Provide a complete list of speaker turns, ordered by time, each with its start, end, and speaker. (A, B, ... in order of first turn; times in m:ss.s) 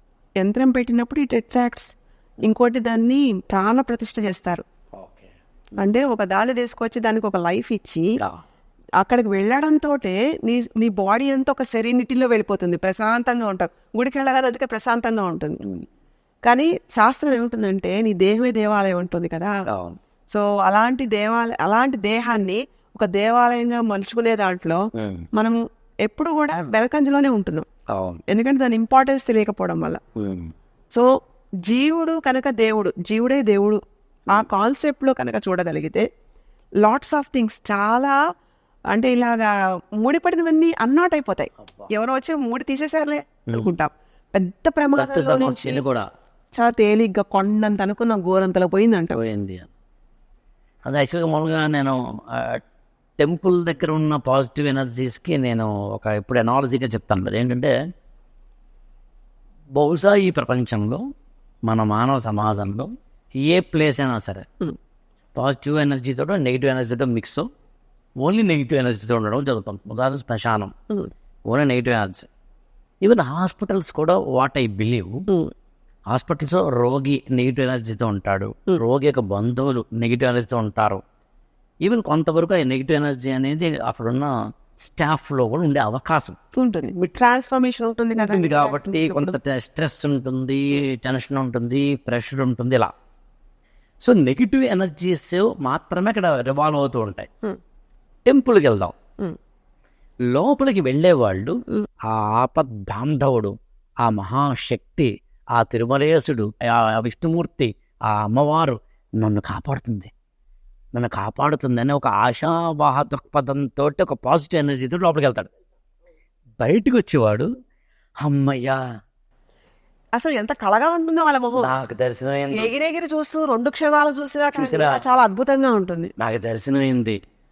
0:00.4-0:04.6 A
0:05.0-0:05.3 B
0:05.8-0:08.2 A
0:09.0-0:15.6 A
0:16.4-0:19.5 A
0:19.7-0:20.0 B
0:20.3-0:24.8 A
0:25.0-0:25.3 B
0:25.3-0:27.7 A
0:27.9-0:28.2 B
0:28.3-0:30.0 A
0:30.2-0:30.5 B
0:31.6-0:36.0 A
0:36.8-0:38.2 A
0:38.9-0:45.8 A
0:41.6-0:41.9 B
0:45.0-0:46.0 B
0:46.5-0:49.1 A
0:49.1-0:49.7 B
0:50.8-0:52.6 B
0:53.2-0:57.7 B
0:59.7-1:01.0 B
1:01.7-1:04.4 B
1:05.3-1:07.4 B
1:08.2-1:10.7 B
1:11.5-1:12.3 B
1:13.0-1:15.2 B
1:16.1-1:21.0 B
1:21.8-1:26.4 B
1:26.6-1:29.3 A
1:28.2-1:32.9 B
1:34.0-1:37.3 B
1:38.2-1:38.9 B
1:40.3-1:41.5 B
1:42.0-1:50.1 B
1:50.9-1:55.5 B
1:56.6-1:57.5 B
1:58.2-1:58.8 B
2:00.2-2:01.7 A
2:01.6-2:02.7 B
2:02.5-2:06.1 A
2:04.6-2:05.0 B
2:06.2-2:07.2 B